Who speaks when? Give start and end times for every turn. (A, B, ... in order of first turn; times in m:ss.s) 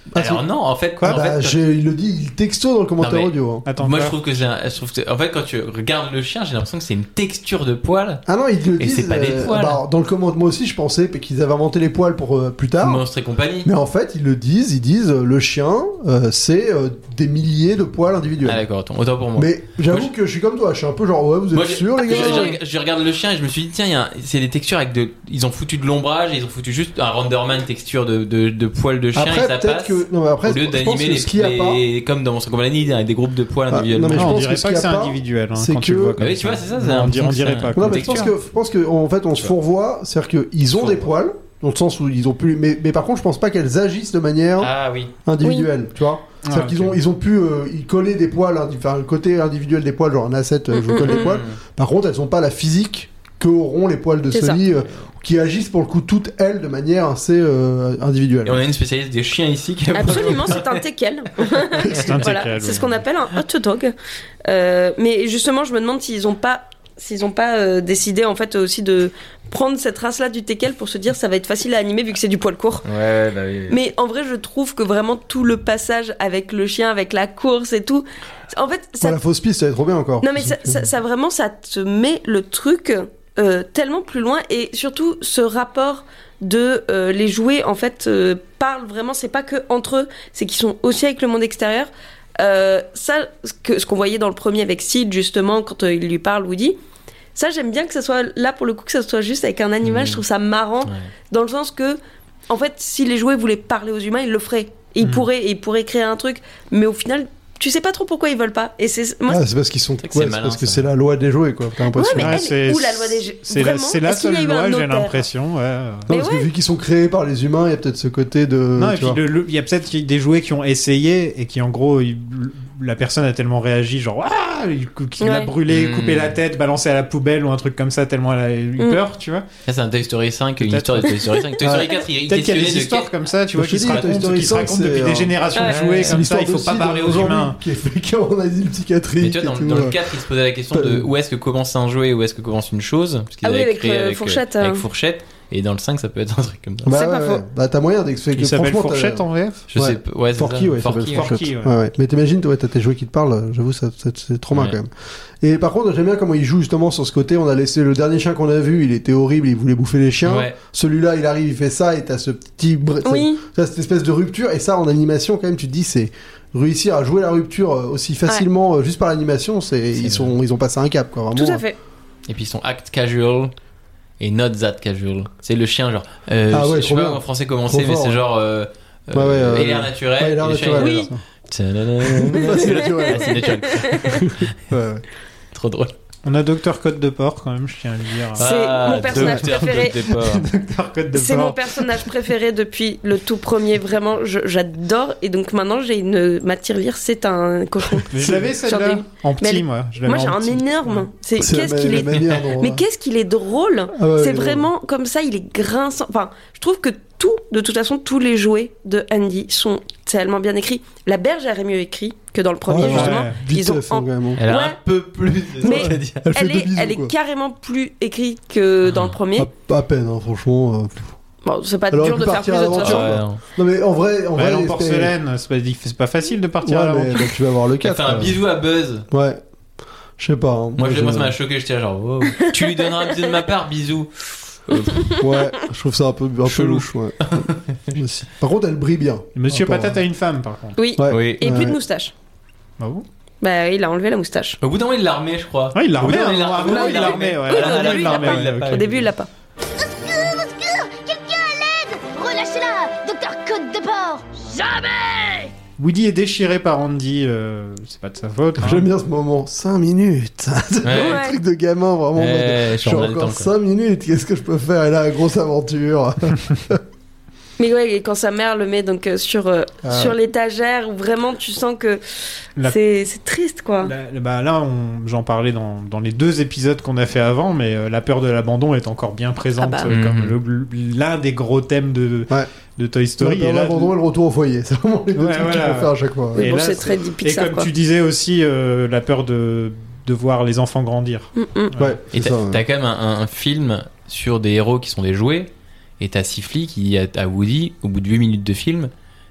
0:00.1-0:00.4 A
0:00.1-0:01.6 B
0:01.0-0:03.6 A
0:03.0-0:08.2 B
0:03.7-0:04.1 C
0:08.2-0:13.0 A
0:08.8-0:09.8 B
0:12.8-0:13.7 B
0:13.6-0:18.6 A
0:18.4-0:20.1 B
0:19.4-0:22.6 A
0:21.5-0:34.4 B
0:22.0-0:22.6 D
0:29.1-0:31.8 A
0:33.7-0:36.2 A
0:34.1-0:38.3 C
0:36.2-0:38.3 B
0:37.7-0:58.6 A
0:40.7-0:41.0 B
0:44.6-0:45.1 B
0:45.4-0:45.7 D
0:46.4-0:47.0 C
0:50.7-0:51.4 D
0:51.0-0:51.6 B
0:54.3-0:54.6 D
0:58.4-1:00.6 B
0:59.9-1:03.9 D
1:01.9-1:03.0 C
1:04.4-1:12.8 D
1:12.8-1:13.8 B
1:13.7-1:19.2 D
1:19.0-1:20.8 A
1:20.2-1:36.8 D
1:37.3-1:49.4 D
1:39.8-1:40.2 B
1:45.0-1:45.3 C
1:49.3-1:52.4 A
1:50.0-1:50.9 B
1:51.9-1:55.2 D
1:52.1-1:56.1 C
1:56.1-1:59.2 A
1:56.1-1:56.5 D
1:58.8-2:09.4 C
2:05.2-2:05.5 D
2:05.7-2:06.4 B
2:09.6-2:13.1 B
2:10.6-2:11.3 C
2:11.6-2:12.0 A
2:12.3-2:17.6 C
2:13.5-2:15.4 A
2:15.5-2:15.8 D
2:15.7-2:16.2 B
2:16.0-2:20.0 A
2:19.2-2:26.9 B
2:20.7-2:21.1 A
2:23.4-2:24.8 D
2:26.8-2:34.9 A
2:26.9-2:27.4 D
2:28.4-2:29.6 C
2:29.7-2:31.3 B
2:31.0-2:31.7 C
2:34.5-2:34.8 B
2:35.4-2:51.6 A
2:40.2-2:40.6 B
2:43.0-2:43.4 D
2:50.0-2:50.3 B
2:51.3-2:51.7 D
2:52.3-2:53.5 B
2:54.2-3:04.3 B
2:56.5-2:58.2 A
2:59.1-3:01.2 A
3:00.8-3:01.1 D
3:02.0-3:05.0 A
3:02.5-3:04.2 D
3:05.5-3:05.9 B
3:06.2-3:08.4 C
3:08.4-3:10.4 B
3:08.4-3:10.0 D
3:09.0-3:12.1 C
3:11.1-3:34.8 D
3:18.1-3:21.0 C
3:18.2-3:18.5 A
3:21.4-3:22.8 A
3:24.0-3:24.7 A
3:32.7-3:34.4 A
3:32.9-3:33.4 C
3:34.4-3:36.2 B
3:35.6-3:39.5 D
3:35.7-3:37.1 A
3:38.9-3:39.1 B
3:39.3-3:41.1 A
3:41.4-3:43.2 D
3:41.9-3:45.1 A
3:42.7-3:43.4 B
3:44.4-3:47.3 C
3:46.6-3:48.4 A
3:47.8-3:49.0 B
3:49.1-3:49.4 A
3:50.2-3:51.4 A
3:50.8-3:55.1 B
3:52.4-3:52.9 D
3:55.0-3:55.3 D
3:55.2-4:00.0 A
3:56.4-3:58.0 B
3:59.3-4:00.8 C
4:00.8-4:02.1 D
4:01.0-4:01.8 A
4:01.1-4:01.4 B
4:02.8-4:03.0 C
4:03.4-4:04.6 D
4:04.6-4:09.0 B
4:05.7-4:08.9 C
4:06.7-4:09.3 D
4:09.8-4:15.0 E
4:15.8-4:18.9 C
4:18.6-4:26.8 A
4:20.8-4:21.2 B
4:20.9-4:21.4 D
4:22.2-4:23.5 B
4:27.6-4:32.0 D
4:29.8-4:30.2 A
4:32.6-4:33.9 D
4:33.8-4:43.9 C
4:39.6-4:39.9 D
4:39.9-4:40.3 B
4:43.2-4:46.5 A
4:45.2-4:51.9 C
4:46.4-4:47.7 D
4:51.4-4:51.7 D
4:51.8-4:52.6 A
4:52.1-4:58.9 B